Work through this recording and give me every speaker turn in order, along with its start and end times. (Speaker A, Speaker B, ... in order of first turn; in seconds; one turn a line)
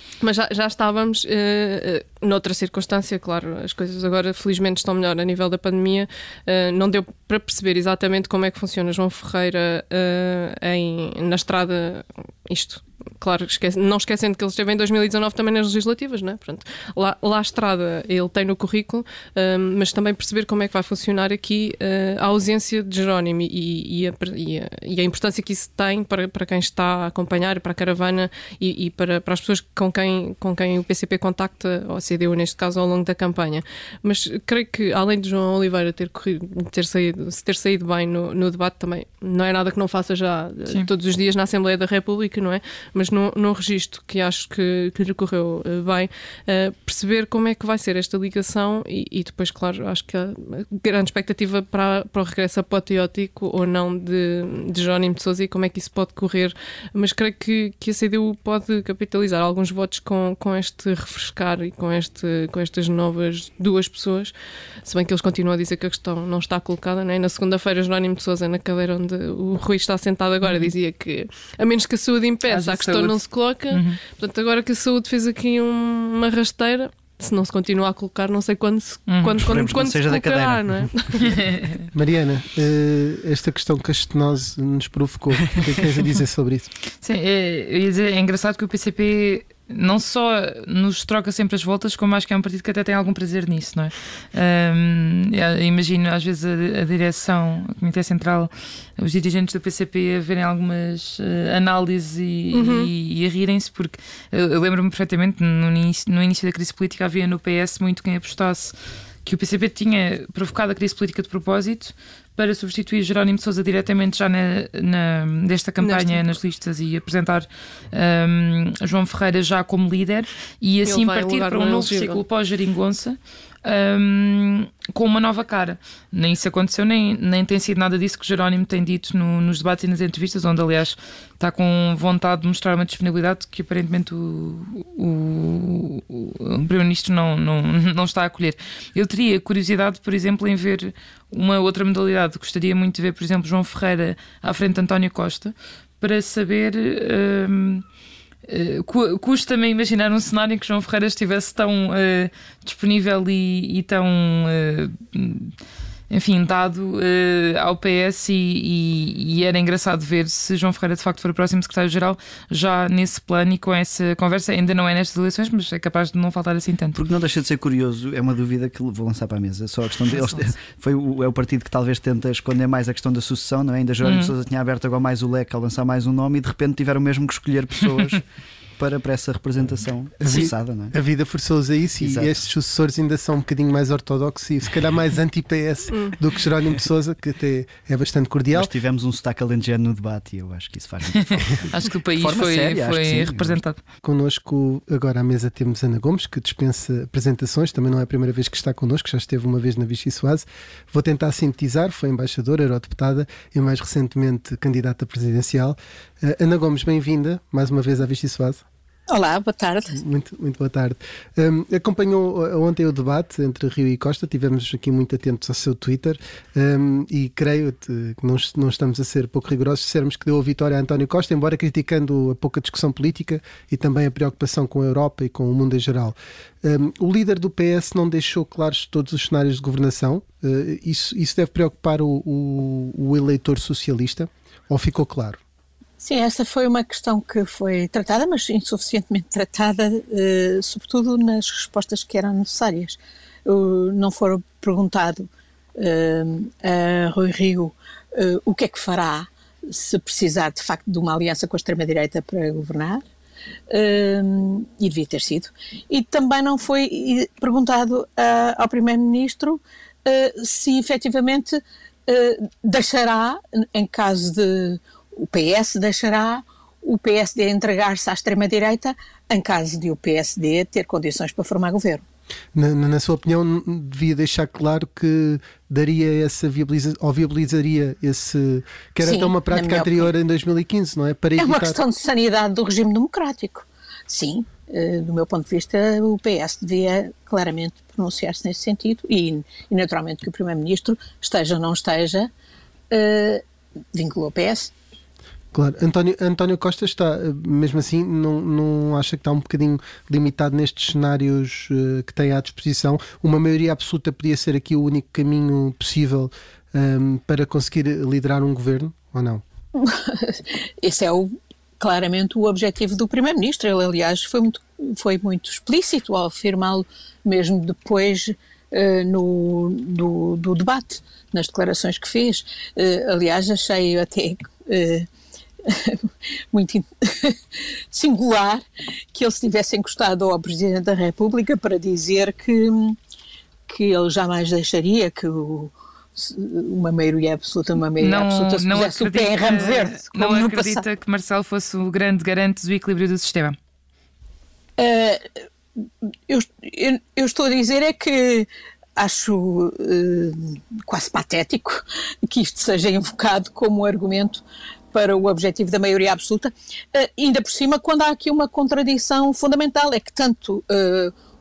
Speaker A: 0.2-81.4
Speaker B: 70.4-70.7
Speaker B: 72.5-74.0
Speaker B: 79.1-79.4
Speaker C: 79.3-81.0
Speaker D: 81.9-86.7
Speaker B: 87.0-147.8
Speaker A: 102.5-102.9
Speaker A: 115.8-116.2
Speaker A: 120.8-122.2
Speaker B: 148.5-155.6
Speaker B: 156.1-167.0
Speaker C: 167.0-178.2
Speaker B: 170.1-170.5
Speaker B: 174.0-174.3
Speaker C: 178.8-180.9
Speaker D: 180.2-188.7
Speaker C: 182.0-182.4
Speaker A: 185.9-186.2
Speaker C: 188.5-193.6
Speaker B: 191.5-193.8
Speaker D: 194.0-208.6
Speaker E: 209.1-210.0
Speaker D: 209.9-235.4
Speaker E: 236.0-245.3
Speaker E: 245.8-253.0
Speaker E: 253.7-272.0
Speaker D: 272.5-281.8
Speaker E: 279.0-280.1
Speaker E: 281.4-292.3
Speaker E: 292.9-293.4
Speaker E: 293.9-294.7
Speaker D: 295.5-309.4
Speaker E: 309.8-325.1
Speaker E: 325.6-333.0
Speaker E: 333.7-340.8
Speaker B: 338.0-343.6
Speaker E: 344.8-345.3
Speaker E: 346.3-361.1